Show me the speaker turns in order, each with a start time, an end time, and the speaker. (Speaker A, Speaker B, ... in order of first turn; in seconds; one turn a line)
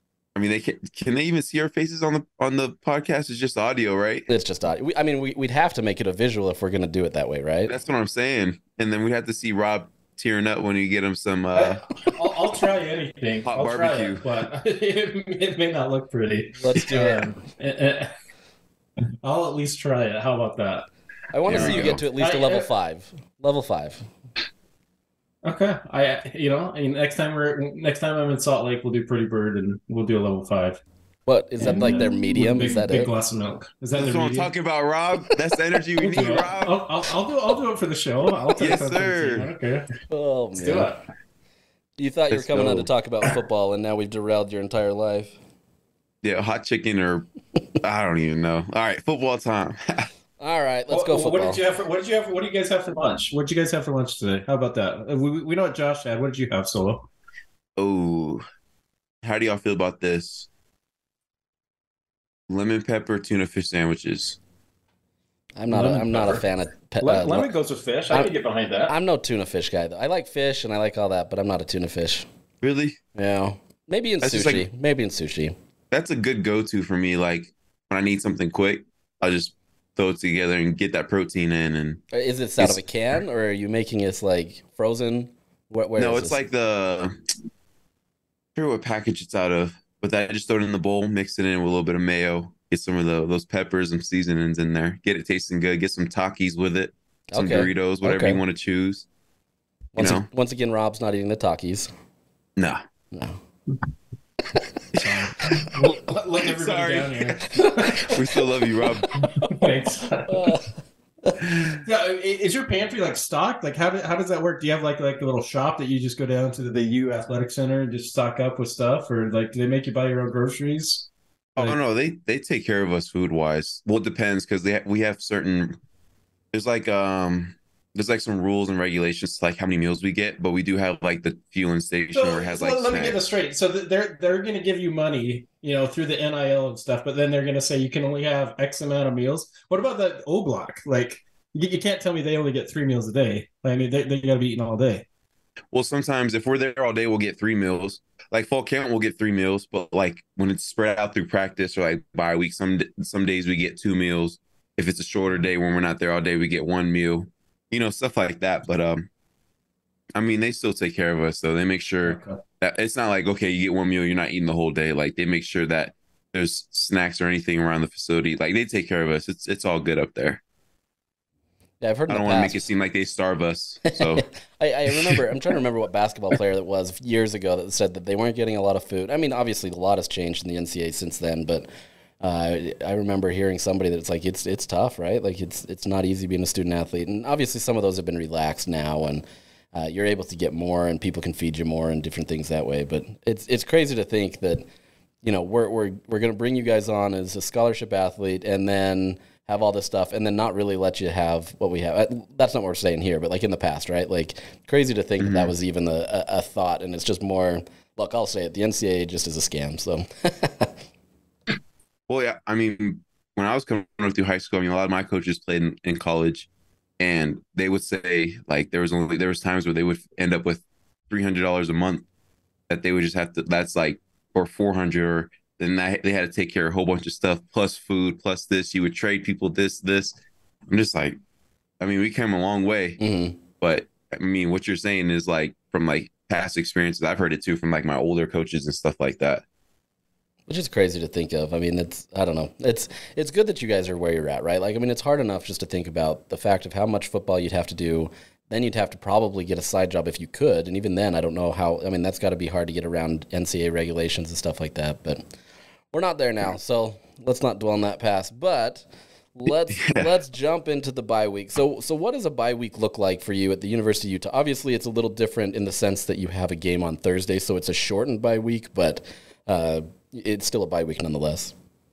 Speaker A: 0.3-4.3
Speaker B: 4.3-7.7
Speaker A: 7.7-11.8
Speaker C: 11.5-18.1
Speaker A: 13.4-14.4
Speaker B: 16.6-17.3
Speaker C: 19.2-20.9
Speaker B: 21.3-24.1
Speaker C: 21.4-22.7
Speaker A: 21.5-22.0
Speaker C: 25.4-30.8
Speaker B: 31.3-33.1
Speaker C: 31.6-34.5
Speaker A: 33.9-36.8
Speaker C: 36.0-39.9
Speaker A: 38.5-39.5
Speaker B: 40.1-40.9
Speaker C: 40.5-41.0
Speaker B: 42.0-45.4
Speaker A: 42.3-42.9
Speaker A: 46.2-47.3
Speaker A: 47.8-50.1
Speaker B: 50.4-51.6
Speaker C: 50.9-57.1
Speaker A: 57.8-58.4
Speaker A: 59.2-60.5
Speaker A: 62.5-64.4
Speaker B: 65.6-67.5
Speaker C: 65.7-66.4
Speaker C: 67.0-68.9
Speaker B: 68.9-72.3
Speaker A: 72.6-73.0
Speaker B: 73.1-75.5
Speaker A: 74.2-74.6
Speaker A: 75.9-82.0
Speaker B: 82.1-86.4
Speaker A: 86.0-87.1
Speaker A: 88.5-99.0
Speaker B: 97.3-98.4
Speaker B: 99.9-101.9
Speaker A: 100.0-100.2
Speaker A: 102.6-102.8
Speaker A: 105.0-105.2
Speaker C: 105.0-108.2
Speaker A: 106.4-109.2
Speaker C: 109.4-110.5
Speaker B: 110.3-110.7
Speaker C: 111.7-121.8
Speaker A: 121.6-125.8
Speaker A: 126.5-133.2
Speaker C: 132.1-145.0
Speaker A: 145.7-159.1
Speaker A: 160.1-170.4
Speaker C: 162.0-162.4
Speaker B: 171.8-172.6
Speaker A: 172.1-174.2
Speaker B: 173.9-181.7
Speaker A: 174.9-175.2
Speaker B: 182.2-194.6
Speaker B: 195.2-210.7
Speaker A: 205.2-205.5
Speaker A: 212.1-216.5
Speaker A: 217.0-222.0
Speaker A: 222.7-230.2
Speaker A: 230.7-231.2
Speaker A: 231.8-233.0
Speaker B: 233.0-233.4
Speaker A: 233.6-239.4
Speaker B: 240.5-255.2
Speaker B: 255.9-271.5
Speaker A: 259.7-260.1